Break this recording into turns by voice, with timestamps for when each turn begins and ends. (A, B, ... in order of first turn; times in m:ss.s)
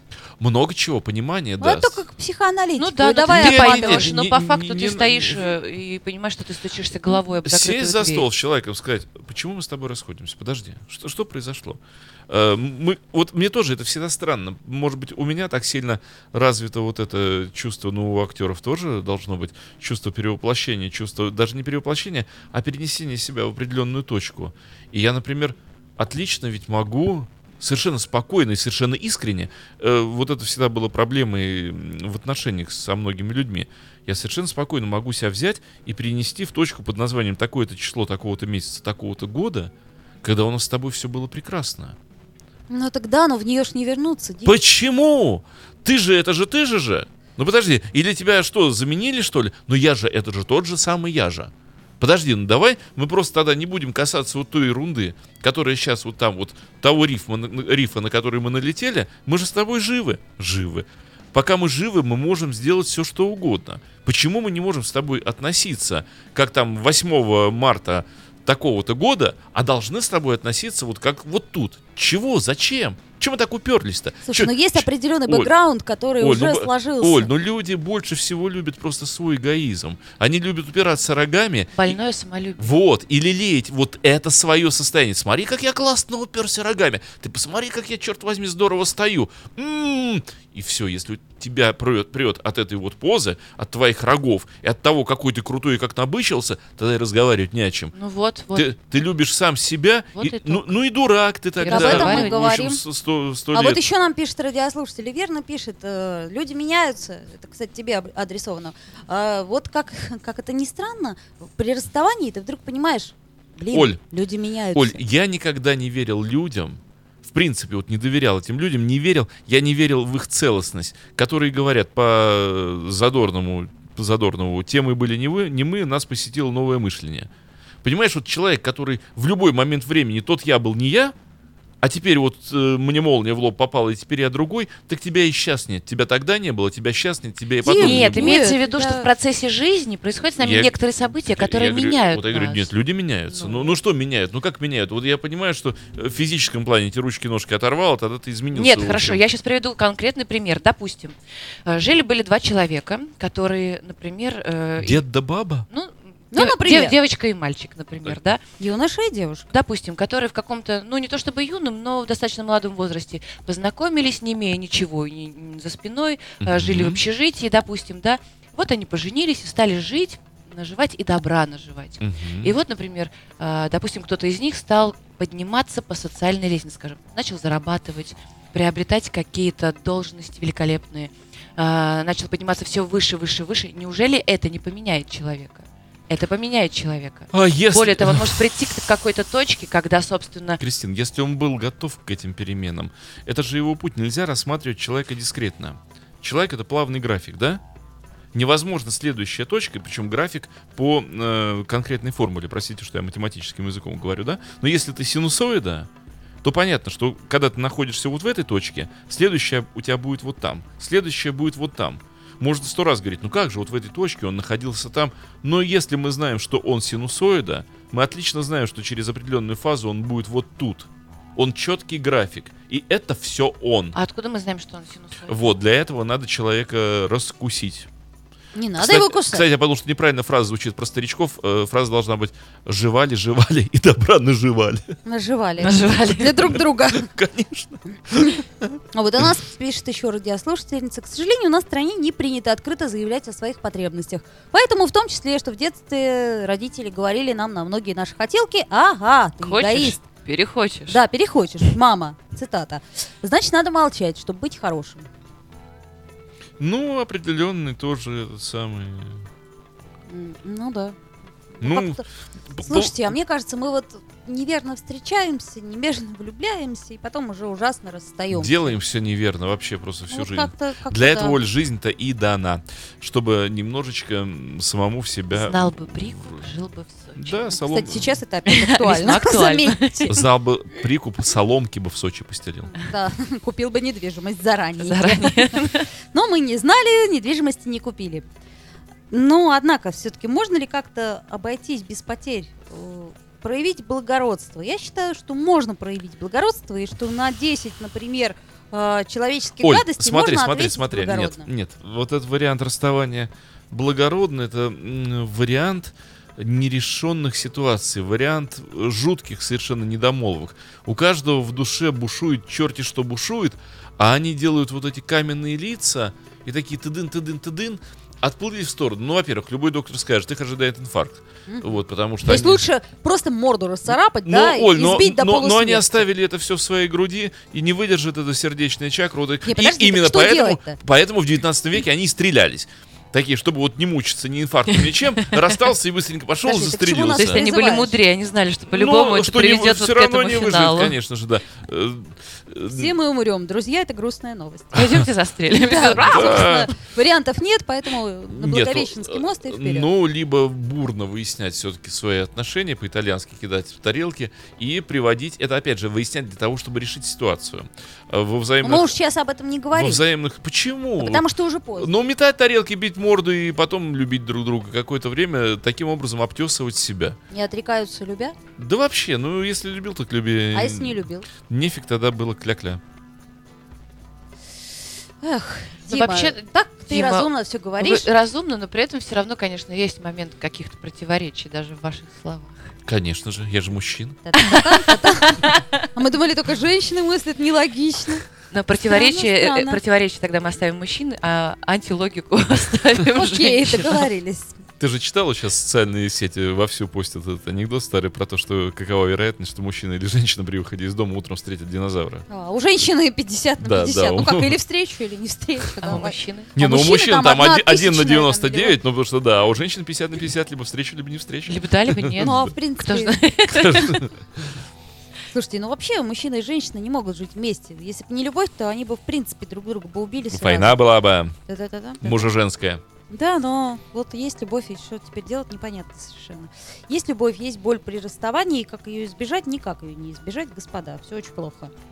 0:00.4-0:02.0 A
0:01.6-0:04.1 B
0:02.8-0:08.3 C
0:03.3-0:05.5 A
0:07.4-0:39.7 A
0:40.2-0:42.0 A
0:42.7-0:44.6 B
0:44.4-1:15.5 A
1:14.3-1:17.3 B
1:16.2-1:22.0 A
1:21.8-1:22.7 C
1:22.6-1:37.9 A
1:37.9-1:38.8 C
1:38.6-1:43.8 A
1:40.2-1:40.7 C
1:41.6-1:42.4 C
1:41.7-1:42.8 B
1:43.5-1:55.0 B
1:53.7-1:54.0 A
1:54.7-2:07.3 A
2:07.8-2:11.2 A
2:11.8-2:18.5 A
2:17.6-2:19.1 B
2:17.7-2:22.7 C
2:20.4-2:29.2 A
2:23.3-2:23.8 C
2:28.5-2:35.0 C
2:34.8-2:35.7 A
2:35.7-2:38.4 C
2:36.3-2:36.9 B
2:38.6-2:39.4 B
2:39.5-3:10.6 C
2:46.4-2:47.0 A
2:52.0-2:52.6 A
3:07.3-3:08.4 A
3:10.6-3:17.6 A
3:18.3-3:25.9 A
3:26.4-3:44.0 A
3:44.0-3:45.4 C
3:45.3-3:47.9 A
3:48.5-3:49.4 B
3:48.8-3:55.0 A
3:55.0-3:57.1 B
3:55.6-3:56.5 C
3:56.9-3:58.8 A
3:58.9-4:10.0 B
4:09.4-4:11.0 C
4:10.9-4:15.1 B
4:16.6-4:19.2 A
4:20.1-4:21.0 B
4:21.6-4:22.1 B
4:21.6-4:23.2 A
4:22.6-4:28.8 B
4:28.3-4:36.4 A
4:30.1-4:31.4 B
4:35.3-4:37.6 C
4:37.2-4:38.1 A
4:37.6-4:40.2 B
4:38.5-4:40.2 C
4:40.1-4:42.7 A
4:42.7-4:48.3 B
4:44.8-4:45.9 C
4:49.1-5:01.5 B
4:59.6-5:22.6 A
5:21.5-5:26.1 B
5:24.2-5:37.4 A
5:29.4-5:30.8 B
5:34.8-5:35.6 C
5:36.4-5:38.0 B
5:37.1-5:41.0 C
5:38.7-5:42.9 A
5:42.7-5:44.8 B
5:44.7-5:46.6 C
5:44.8-5:45.1 A
5:45.6-5:49.9 B
5:46.0-5:46.7 A
5:48.3-5:59.0 A
5:58.6-6:00.0 B
5:59.7-6:01.2 A
6:01.0-6:01.9 B
6:01.8-6:07.2 A
6:07.3-6:08.4 B
6:08.6-6:12.8 A
6:10.5-6:11.3 B
6:15.2-6:18.1 B
6:15.9-6:22.7 C
6:22.9-6:24.2 A
6:24.2-6:28.3 B
6:24.4-6:25.8 C
6:28.5-6:34.1 C
6:28.9-6:29.8 B
6:33.2-6:34.6 B
6:34.8-6:42.3 A
6:42.3-6:48.8 B
6:43.6-6:44.6 A
6:45.8-6:46.5 C
6:46.6-6:52.5 A
6:51.5-6:54.0 C
6:52.2-6:53.2 B
6:53.5-6:54.5 A
6:55.3-7:00.8 B
7:00.3-7:01.4 A
7:01.5-7:02.3 B
7:02.0-7:02.8 A
7:03.1-7:11.7 B